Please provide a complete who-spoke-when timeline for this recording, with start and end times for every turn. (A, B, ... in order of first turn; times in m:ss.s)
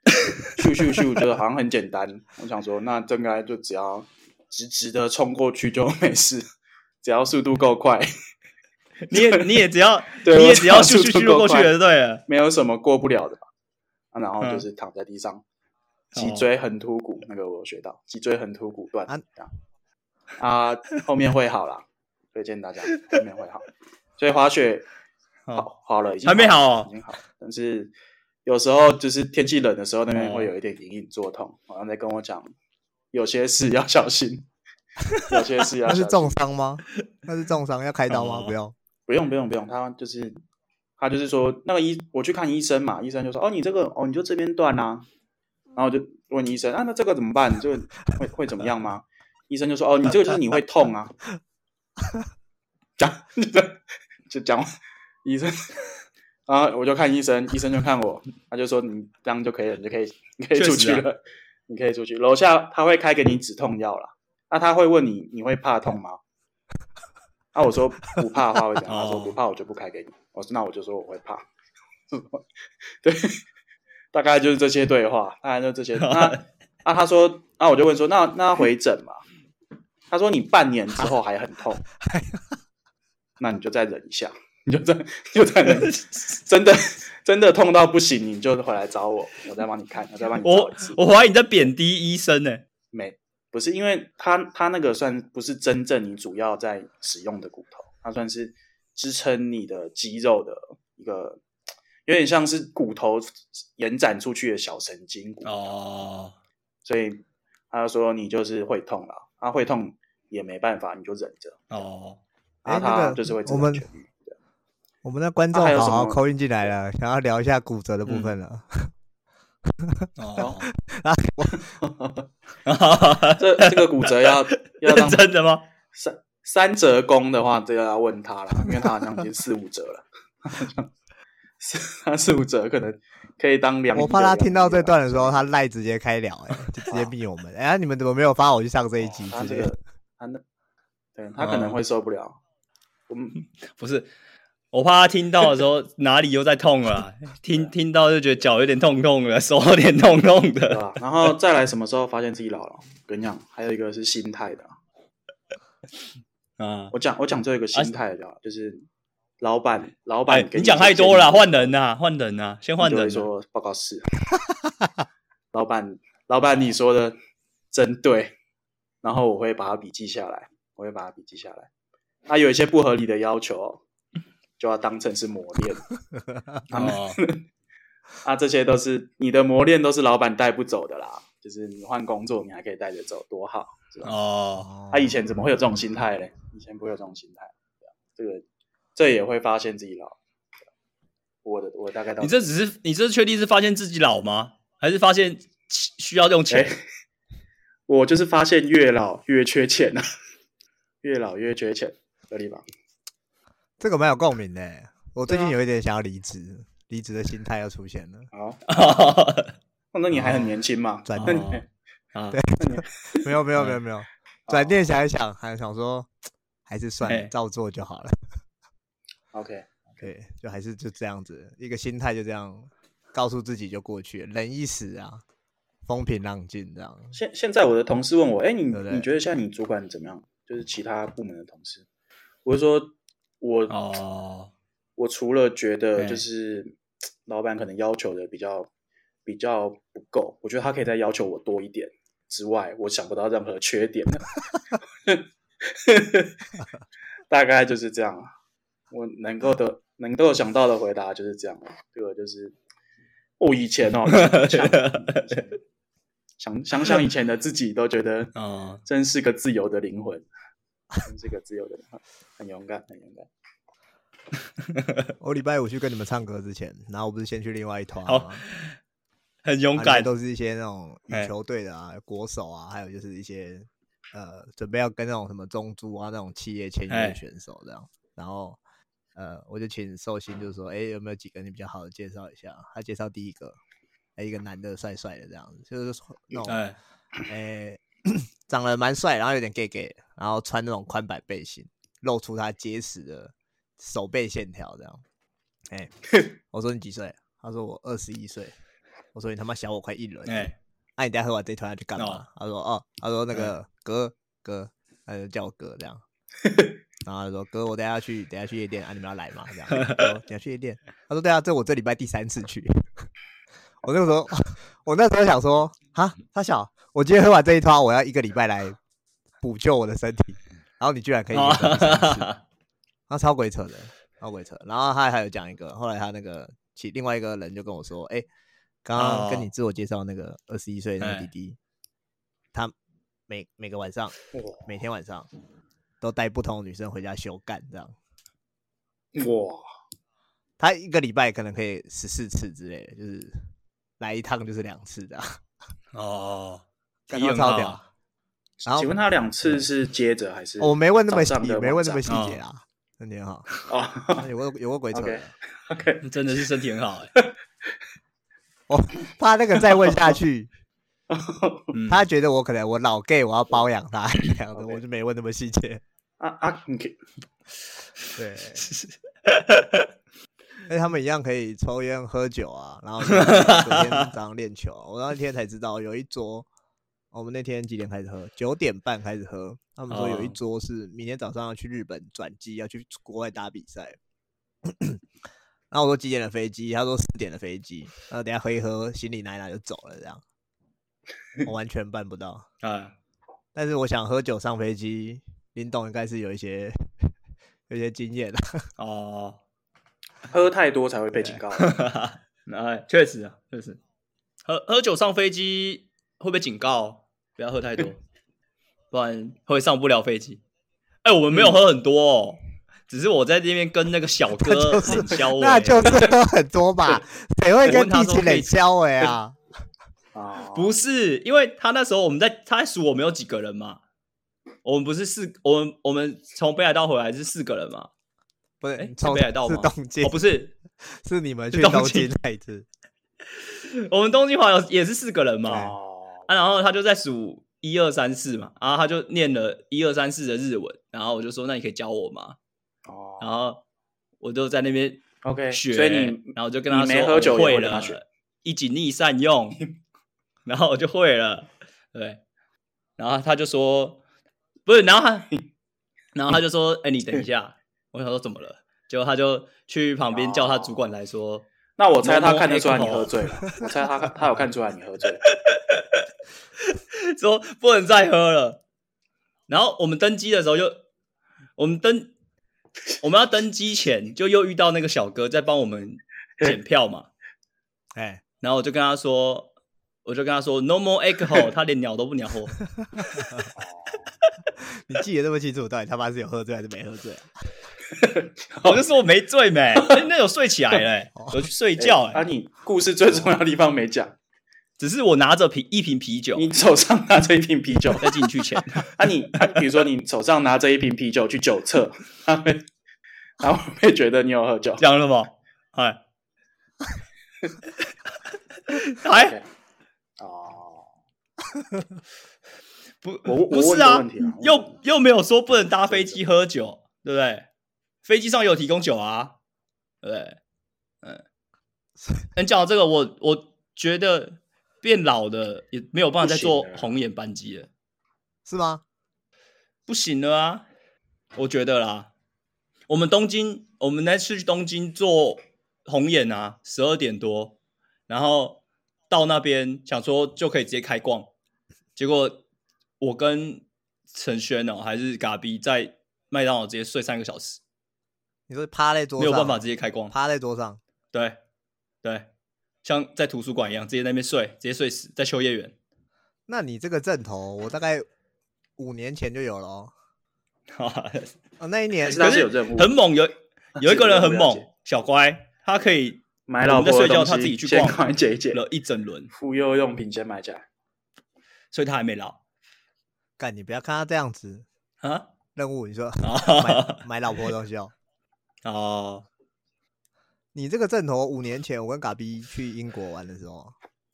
0:00.4-0:06.4 A
0:07.0-0:08.1 A
0:09.0-0:12.2 B
0:09.1-0:09.4 A
0:10.2-0:11.7 A
0:12.3-0:13.5 A
0:14.1-0:15.4 A
0:16.1-0:16.5 B
0:16.1-0:19.5 A
0:20.4-0:24.9 A
0:25.5-0:27.9 A
0:26.2-0:26.9 B
0:28.4-0:32.5 A
0:30.1-0:30.5 B
0:33.1-0:34.5 A
0:35.2-0:36.4 A
0:35.8-0:38.7 C
0:38.1-0:38.5 B
0:39.1-0:40.4 A
0:41.0-0:45.1 A
0:45.8-0:51.1 A
0:53.0-0:54.7 A
0:55.2-0:55.6 A
0:56.5-1:06.2 A
1:00.6-1:01.0 B
1:07.5-1:11.4 A
1:08.9-1:09.4 B
1:12.1-1:12.4 A
1:13.0-1:13.4 A
1:14.1-1:19.2 A
1:16.0-1:16.4 B
1:20.1-1:21.8 A
1:22.0-1:22.6 C
1:23.4-1:31.0 A
1:30.4-1:32.6 B
1:32.9-1:41.4 A
1:42.0-1:45.7 A
1:45.4-1:46.4 B
1:46.8-1:51.7 A
1:51.7-1:52.2 B
1:52.6-1:54.4 A
1:52.6-1:53.9 C
1:55.0-1:58.9 C
1:55.5-1:56.2 A
1:58.0-1:58.4 B
1:59.7-2:01.7 C
2:00.2-2:00.7 B
2:00.4-2:00.6 A
2:01.7-2:02.2 A
2:02.6-2:05.6 B
2:03.4-2:05.3 A
2:05.9-2:10.9 A
2:11.6-2:15.5 A
2:13.9-2:19.7 C
2:19.2-2:20.4 A
2:21.1-2:22.4 A
2:21.4-2:21.7 B
2:23.1-2:23.4 A
2:23.8-2:24.1 B
2:24.7-2:31.3 B
2:30.6-2:34.7 A
2:36.6-2:36.9 B
2:36.9-2:38.9 A
2:39.4-2:41.7 A
2:40.3-2:43.3 B
2:42.8-2:44.0 A
2:45.5-2:47.1 A
2:47.7-2:48.3 A
2:49.0-2:51.7 A
2:52.3-2:53.8 A
2:54.6-2:55.9 A
2:56.7-2:57.2 B
2:56.7-2:57.4 A
2:58.2-3:04.1 A
3:04.0-3:04.7 B
3:04.6-3:05.2 C
3:04.9-3:08.4 A
3:09.0-3:10.2 A
3:11.4-3:12.3 A
3:12.2-3:16.7 B
3:16.5-3:16.8 A
3:17.9-3:20.1 A
3:21.0-3:22.6 A
3:23.8-3:28.3 C
3:25.3-3:25.5 A
3:28.3-3:28.6 A
3:28.7-3:29.6 B
3:29.9-3:31.6 A
3:30.1-3:30.5 B
3:31.0-3:31.4 C
3:31.2-3:31.6 B
3:32.1-3:32.4 B
3:32.3-3:36.1 C
3:32.6-3:33.3 A
3:34.5-3:34.9 A
3:36.7-3:38.2 C
3:37.0-3:37.3 B
3:39.3-3:40.1 A
3:40.0-3:45.2 C
3:45.8-3:47.2 C
3:47.2-3:51.8 A
3:48.7-3:49.1 C
3:52.4-3:53.8 A
3:53.7-3:54.5 B
3:55.0-3:58.7 A
3:56.0-3:56.2 B
3:59.2-4:04.3 A
4:05.0-4:06.4 A
4:07.3-4:08.3 A
4:08.9-4:12.6 A
4:13.4-4:15.6 A
4:14.1-4:15.4 B
4:16.4-4:18.3 A
4:18.3-4:18.8 B
4:18.8-4:20.3 A
4:21.0-4:23.3 A
4:24.7-4:25.1 B
4:25.2-4:28.4 C
4:28.0-4:28.8 B
4:29.4-4:30.1 B
4:29.8-4:38.6 C
4:36.9-4:37.2 B
4:39.1-4:43.6 C
4:44.2-4:46.6 C
4:46.5-4:46.8 B
4:47.3-4:55.0 C
4:55.7-4:55.9 C
4:56.5-4:58.5 C
4:59.1-5:06.0 C
5:00.2-5:00.5 B
5:02.0-5:02.2 B
5:06.4-5:06.7 A
5:07.0-5:13.1 C
5:09.7-5:10.0 B
5:13.8-5:18.8 C
5:19.4-5:22.3 C
5:21.3-5:22.4 B
5:23.1-5:28.2 C
5:28.8-5:31.6 C
5:29.0-5:29.5 B
5:31.0-5:31.3 B
5:33.3-5:35.3 C
5:34.3-5:34.6 A
5:36.0-5:37.9 C
5:39.1-5:39.6 A
5:40.6-5:43.5 C
5:44.0-5:45.4 C
5:45.9-5:47.8 B
5:47.1-5:47.8 C
5:48.6-5:52.0 A
5:48.7-5:49.7 C
5:50.6-5:53.5 C
5:52.1-5:52.4 B
5:53.7-5:54.3 A
5:54.2-5:55.3 C
5:54.9-5:56.0 A
5:56.0-5:57.1 B
5:58.7-6:00.5 C
5:59.6-6:00.0 A
6:01.1-6:01.7 A
6:01.7-6:02.0 B
6:01.9-6:05.8 C
6:04.5-6:04.8 A
6:06.2-6:07.0 A
6:08.2-6:08.7 C
6:08.6-6:09.9 B
6:10.7-6:16.5 C
6:13.0-6:14.1 B
6:17.1-6:24.0 C
6:19.9-6:20.4 B
6:24.6-6:25.0 C
6:25.7-6:30.2 C
6:31.4-6:32.4 C
6:32.6-6:32.9 B
6:33.5-6:36.9 C
6:37.7-6:38.7 C
6:38.8-6:39.4 B
6:40.3-6:41.8 A
6:41.1-6:41.4 C
6:41.6-6:43.8 B
6:44.4-6:48.0 B
6:48.9-6:50.4 B
6:51.0-6:56.0 B
6:54.4-6:59.4 C
6:57.6-6:59.1 B
7:00.1-7:00.8 A
7:00.5-7:03.8 B
7:04.6-7:07.9 B
7:08.6-7:12.6 C
7:08.8-7:10.5 B
7:11.5-7:12.1 B
7:13.5-7:15.7 B
7:15.5-7:15.7 C
7:15.5-7:16.2 A
7:16.3-7:22.4 B
7:22.8-7:23.3 A
7:23.2-7:23.6 B
7:24.2-7:29.6 B
7:25.2-7:28.0 A
7:30.4-7:32.2 B
7:33.0-7:34.0 B
7:34.6-7:35.3 B
7:36.1-7:41.4 B
7:40.1-7:40.9 A
7:41.8-7:45.2 A
7:42.0-7:43.1 B
7:45.2-7:46.0 B
7:46.6-7:48.6 B
7:49.5-7:50.8 B
7:51.6-7:52.1 B
7:53.0-7:57.1 B
7:57.9-7:58.2 C
7:58.4-7:59.5 B
8:00.0-8:02.6 B
8:02.8-8:03.5 C
8:03.5-8:04.1 A
8:04.6-8:07.3 C
8:07.9-8:08.8 A
8:08.6-8:12.2 B
8:09.8-8:10.0 A
8:11.8-8:14.2 A
8:14.8-8:16.5 B
8:16.4-8:18.1 A
8:18.0-8:18.9 B
8:18.8-8:22.6 A
8:23.4-8:24.8 A
8:24.8-8:26.0 B
8:28.7-8:29.3 B
8:29.0-8:29.4 A
8:30.2-8:30.9 A
8:33.0-8:37.4 B
8:33.2-8:34.8 A
8:35.9-8:36.2 A
8:38.0-8:39.4 B
8:40.0-8:40.4 B
8:42.4-8:47.7 B
8:46.2-8:47.0 A
8:48.4-8:48.8 C
8:49.9-8:50.6 B
8:51.4-8:52.1 B
8:52.9-9:01.3 B
9:02.0-9:02.4 B
9:03.0-9:07.6 B
9:08.5-9:10.8 C
9:09.2-9:10.1 B
9:11.1-9:11.4 B
9:12.0-9:12.3 B
9:12.8-9:15.7 B
9:16.5-9:18.0 C
9:18.8-9:19.9 C
9:20.7-9:21.4 B
9:21.6-9:22.2 C
9:22.0-9:23.0 A
9:22.1-9:28.0 B
9:23.8-9:24.6 A
9:26.5-9:28.6 A
9:28.5-9:29.3 B
9:29.3-9:30.6 A
9:31.7-9:32.4 B
9:33.4-9:34.6 C
9:35.0-9:35.3 B
9:35.5-9:37.9 C
9:36.2-9:37.0 B
9:38.6-9:39.2 B
9:40.5-9:43.7 C